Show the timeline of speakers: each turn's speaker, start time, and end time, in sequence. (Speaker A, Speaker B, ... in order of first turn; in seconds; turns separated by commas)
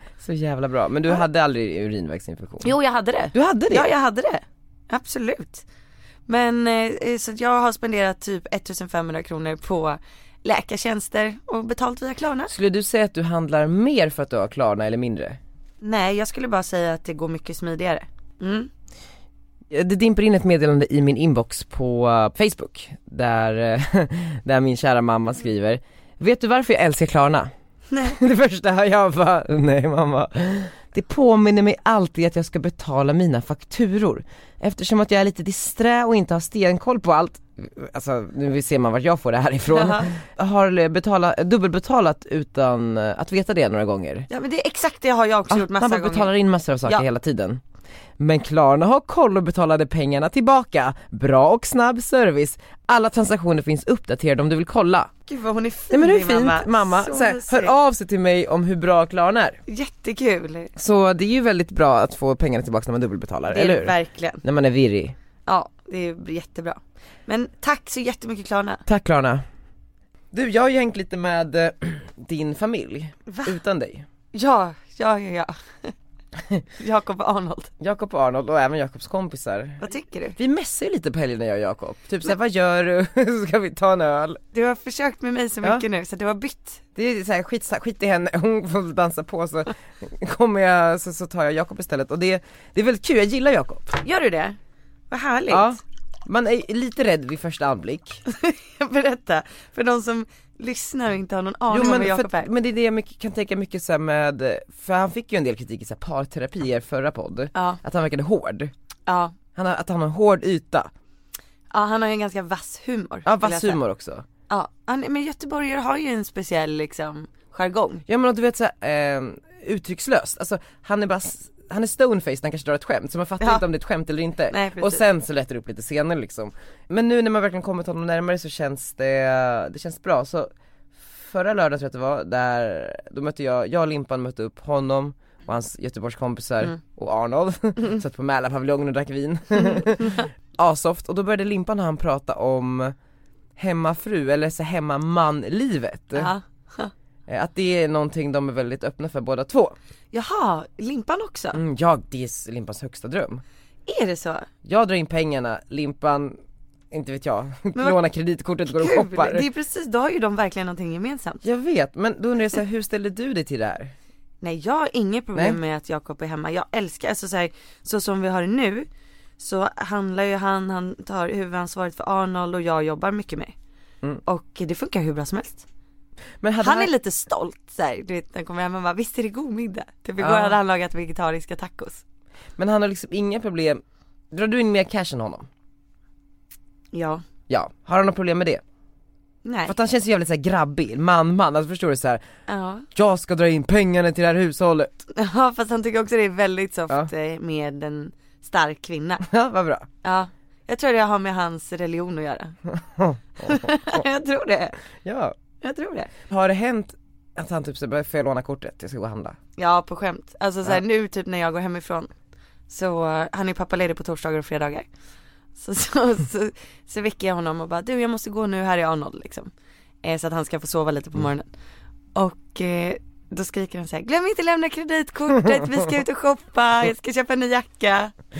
Speaker A: 0.2-2.7, Speaker B: 2.6-5.6, Speaker A: 3.3-3.9, Speaker B: 6.2-12.5, Speaker A: 12.5-15.4, Speaker B: 15.8-18.7, Speaker A: 19.7-27.5, Speaker B: 27.9-28.2, Speaker A: 28.0-44.3, Speaker B: 39.7-40.1, Speaker B: 44.3-46.3, Speaker A: 45.5-47.6, Speaker A: 48.2-55.1, Speaker B: 55.3-57.7, Speaker A: 55.9-59.6, Speaker B: 59.7-60.7, Speaker A: 60.8-65.1, Speaker B: 63.5-64.4, Speaker B: 65.5-68.8, Speaker A: 68.8-69.4, Speaker A: 70.3-74.0, Speaker B: 73.3-73.6, Speaker B: 74.3-75.9, Speaker B: 76.8-77.7, Speaker A: 77.8-79.8, Speaker B: 79.8-80.4, Speaker A: 80.3-84.4, Speaker B: 84.5-86.8, Speaker A: 87.0-94.0, Speaker B: 94.0-94.6, Speaker B: 95.1-95.7, Speaker A: 95.5-98.2, Speaker B: 98.3-102.5, Speaker A: 101.7-108.7, Speaker B: 107.5-107.8, Speaker B: 109.0-109.3, Speaker A: 109.5-110.9, Speaker B: 111.7-113.8, Speaker A: 113.2-114.2, Speaker B: 114.5-118.0, Speaker A: 118.1-130.5, Speaker B: 123.4-123.6, Speaker B: 124.5-125.0, Speaker A: 131.1-142.9, Speaker B: 139.6-140.2, Speaker A: 143.6-146.3, Speaker B: 146.1-146.9, Speaker A: 147.3-149.7, Speaker B: 150.1-151.6, Speaker A: 151.5-153.4, Speaker B: 153.9-154.5, Speaker A: 154.6-156.4, Speaker A: 156.9-159.4, Speaker B: 157.7-158.0, Speaker B: 158.7-161.4, Speaker A: 161.4-163.9, Speaker B: 164.4-173.5, Speaker B: 174.2-175.7, Speaker A: 176.4-176.9, Speaker B: 176.6-182.0, Speaker A: 180.2-180.6, Speaker A: 182.6-185.5, Speaker B: 186.9-187.2, Speaker A: 187.5-188.6, Speaker B: 189.4-189.7, Speaker A: 189.7-192.2, Speaker B: 192.5-192.9, Speaker A: 192.9-195.1, Speaker B: 195.1-199.2, Speaker A: 199.2-199.9, Speaker B: 200.0-202.6, Speaker A: 202.7-204.0, Speaker B: 203.4-204.8, Speaker A: 205.0-205.3, Speaker B: 205.6-206.1, Speaker A: 206.3-209.4, Speaker B: 209.6-212.1, Speaker B: 212.7-214.9, Speaker B: 215.6-219.5, Speaker B: 220.0-221.5, Speaker B: 222.1-228.1